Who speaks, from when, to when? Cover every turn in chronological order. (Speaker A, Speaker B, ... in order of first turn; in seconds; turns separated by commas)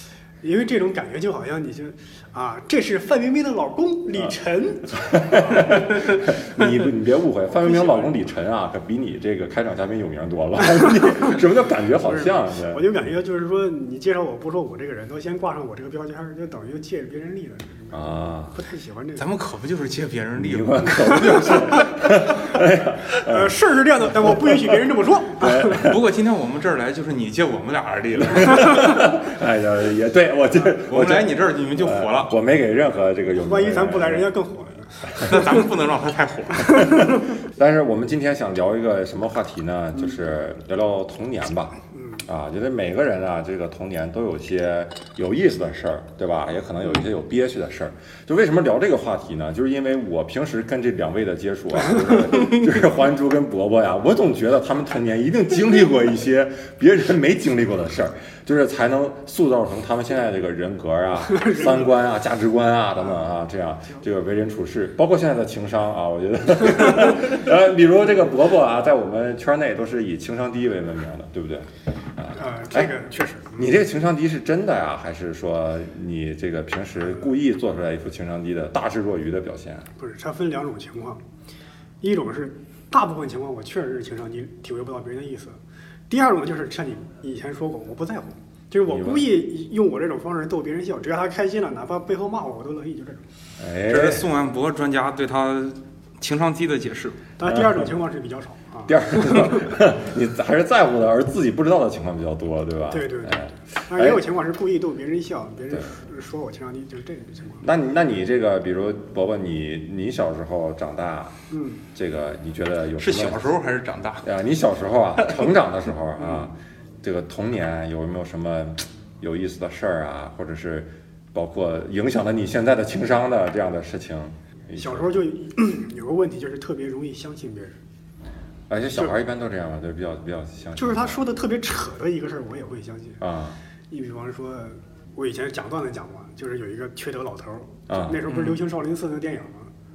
Speaker A: 0.4-5.9, Speaker B: 5.0-12.8, Speaker A: 7.5-8.2, Speaker A: 12.0-19.3, Speaker B: 17.9-18.6, Speaker C: 19.1-21.8, Speaker B: 20.4-23.6, Speaker A: 21.2-21.8, Speaker A: 23.1-25.9, Speaker B: 24.1-24.8, Speaker B: 25.4-26.0, Speaker C: 25.8-28.9, Speaker B: 28.2-34.3, Speaker C: 30.8-32.3, Speaker A: 33.4-35.3, Speaker C: 35.2-36.9, Speaker B: 36.6-72.9, Speaker A: 41.9-42.2, Speaker A: 61.3-61.9, Speaker A: 72.3-73.7, Speaker B: 73.5-79.9, Speaker A: 80.0-81.2, Speaker A: 82.0-93.2, Speaker B: 88.8-89.3, Speaker B: 93.6-94.2, Speaker C: 93.9-97.2, Speaker A: 97.4-99.6, Speaker B: 97.4-97.9, Speaker B: 98.9-104.2, Speaker A: 102.9-107.7, Speaker B: 107.6-111.3, Speaker A: 111.5-111.8, Speaker B: 111.9-113.5, Speaker C: 113.0-114.2, Speaker B: 114.2-125.2, Speaker A: 116.2-116.5, Speaker A: 124.7-127.8, Speaker B: 128.7-131.2, Speaker A: 130.8-133.2, Speaker B: 133.2-133.6, Speaker A: 133.9-139.7, Speaker B: 137.9-138.2, Speaker C: 138.3-138.6